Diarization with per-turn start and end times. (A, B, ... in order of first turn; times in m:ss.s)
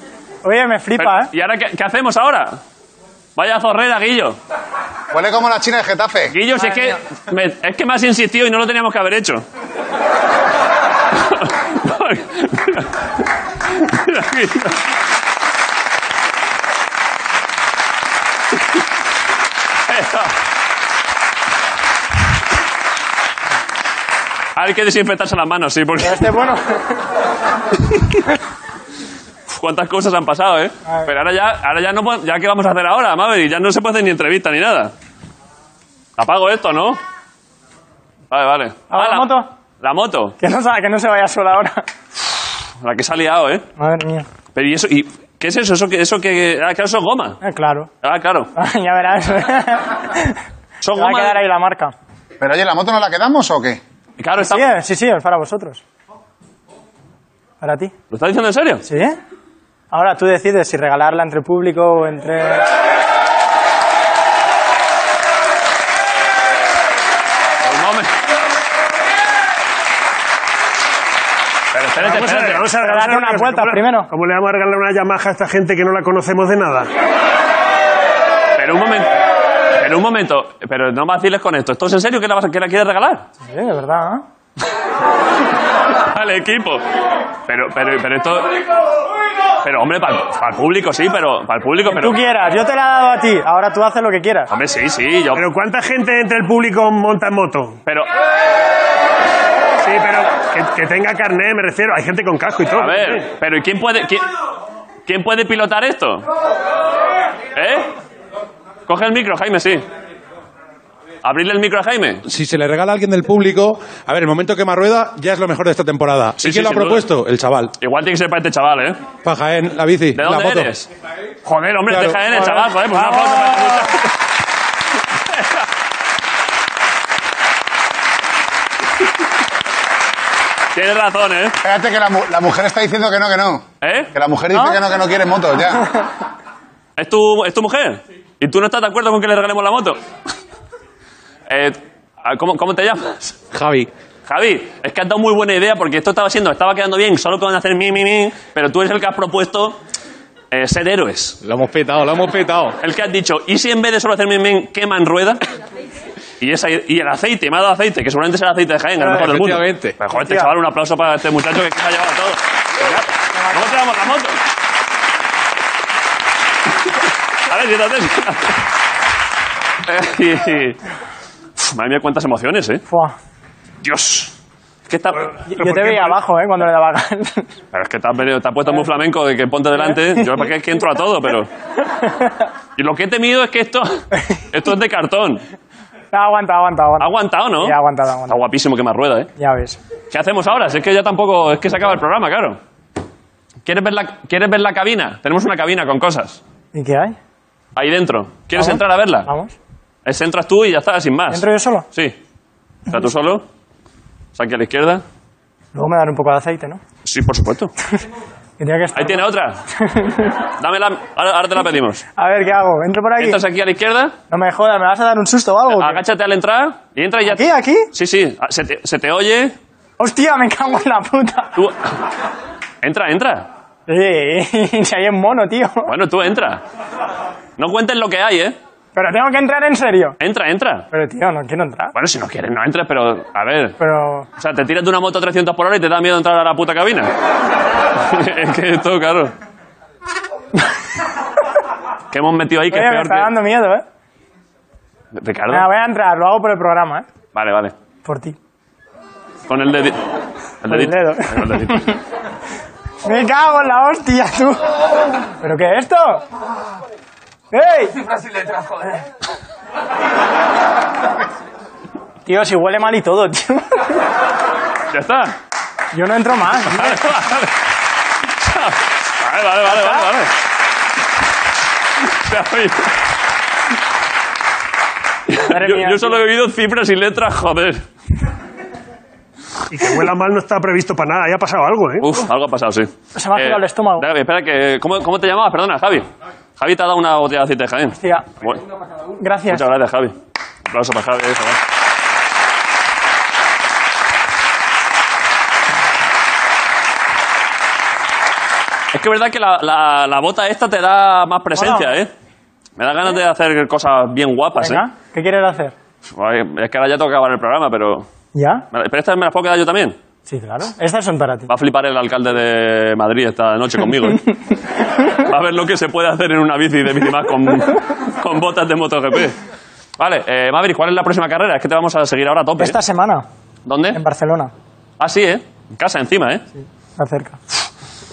0:00.4-0:01.3 A
0:01.0-0:02.6 B
0:03.4-0:04.4 B
0:05.1-0:06.4 C
0:06.3-0:09.4 B
0:11.1-0:13.1 B
0:13.7-0:14.8 B
0:19.9-0:20.4 B
0:24.6-0:26.3 B
0:26.0-0:27.0 A
0:29.5-0:34.9 B
0:36.2-0:37.0 B
0:38.3-0:40.4 B
0:38.9-0:39.5 A
0:40.4-0:41.8 A
0:42.8-0:43.7 B
0:43.8-0:44.3 A
0:44.6-0:47.4 B
0:47.4-0:47.9 A
0:48.0-0:48.5 B
0:48.6-0:50.4 A
0:50.8-0:51.4 B
0:50.9-0:51.9 A
0:52.4-0:53.8 C
0:54.2-0:54.7 B
0:54.4-0:55.8 A
0:57.6-0:57.9 A
0:58.1-0:58.8 B
0:58.8-0:59.2 A
0:59.9-1:02.6 A
1:07.6-1:08.1 B
1:11.7-1:12.7 B
1:12.0-1:16.9 D
1:12.8-1:14.1 A
1:18.6-1:19.2 B
1:19.8-1:23.3 B
1:23.4-1:24.2 A
1:26.0-1:26.8 B
1:27.4-1:28.6 B
1:29.6-1:32.2 B
1:31.8-1:34.5 A
1:34.5-1:35.4 B
1:35.3-1:37.8 D
1:37.8-1:38.1 B
1:39.8-1:43.2 D
1:42.7-1:44.3 B
1:45.1-1:46.3 B
1:47.6-1:47.9 B
1:48.9-1:49.8 B
1:51.2-1:52.2 B
1:52.3-1:57.7 E
1:56.4-1:57.1 B
1:57.8-1:59.0 B
1:59.2-2:00.7 E
2:00.1-2:00.9 B
2:01.4-2:04.1 B
2:01.9-2:02.3 E
2:02.3-2:04.0 A
2:05.3-2:05.6 B
2:10.7-2:11.6 B
2:11.6-2:15.9 C
2:13.8-2:14.1 B
2:17.0-2:20.0 B
2:21.5-2:23.4 B
2:23.6-2:23.8 F
2:24.3-2:29.8 B
2:30.5-2:31.4 B
2:31.5-2:32.7 F
2:32.8-2:35.4 B
2:36.4-2:44.4 B
2:39.0-2:39.9 F
2:40.1-2:40.5 A
2:47.5-2:48.6 B
2:49.8-2:50.8 B
2:51.6-2:52.8 B
2:52.9-2:53.1 A
2:53.8-2:54.3 B
2:54.9-2:55.4 B
2:55.5-2:57.5 A
2:55.6-2:56.1 D
2:57.7-3:01.5 B
3:02.1-3:02.3 A
3:02.8-3:05.4 B
3:06.1-3:08.4 A
3:07.0-3:07.8 B
3:08.3-3:09.3 B
3:09.4-3:09.8 A
3:10.1-3:12.6 B
3:13.6-3:16.4 B
3:16.7-3:17.2 A
3:17.8-3:19.3 B
3:18.5-3:19.6 A
3:20.0-3:22.2 B
3:21.3-3:21.9 A
3:22.9-3:23.4 B
3:24.4-3:25.0 B
3:25.7-3:26.8 A
3:27.0-3:27.7 B
3:28.6-3:30.4 A
3:29.0-3:29.6 B
3:30.6-3:32.0 B
3:32.2-3:33.4 A
3:33.2-3:34.2 B
3:34.3-3:36.0 A
3:35.7-3:39.6 B
3:37.2-3:37.9 A
3:40.0-3:41.6 A
3:41.6-3:41.9 B
3:42.8-3:43.5 B
3:43.9-3:45.9 A
3:45.9-3:46.6 B
3:47.6-3:48.6 B
3:49.0-3:50.2 A
3:50.2-3:50.9 B
3:50.9-3:51.9 A
3:51.9-3:53.8 B
3:53.8-3:54.3 A
3:54.4-3:57.1 B
3:58.0-3:59.3 B
4:02.1-4:03.3 B
4:02.7-4:03.8 A
4:05.1-4:05.7 B
4:05.5-4:07.0 A
4:07.4-4:07.7 B
4:08.0-4:08.4 A
4:09.5-4:10.0 B
4:10.6-4:12.0 B
4:10.7-4:12.0 A
4:13.0-4:14.6 A
4:15.4-4:16.2 A
4:17.5-4:18.0 A
4:22.3-4:24.0 A
4:24.9-4:25.4 B
4:25.9-4:27.1 A
4:26.7-4:27.5 B
4:28.4-4:30.3 B
4:29.7-4:30.1 A
4:32.0-4:33.0 B
4:35.3-4:37.8 B
4:35.4-4:36.2 A
4:39.7-4:42.2 D
4:42.0-4:48.6 B
4:43.1-4:44.1 A
4:48.0-4:48.3 A
4:49.2-4:49.6 A
4:49.5-4:50.2 B
4:50.7-4:51.6 B
4:58.9-5:02.1 B
5:01.5-5:01.9 A
5:02.8-5:04.8 B
5:04.6-5:05.7 A
5:06.1-5:08.1 B
5:08.3-5:08.6 A
5:08.7-5:10.0 B
5:10.3-5:11.5 A
5:11.5-5:14.3 B
5:15.2-5:19.4 B
5:20.0-5:22.8 B
5:22.6-5:23.3 A
5:23.7-5:24.0 B
5:23.9-5:24.5 A
5:25.0-5:26.4 B
5:26.6-5:27.4 A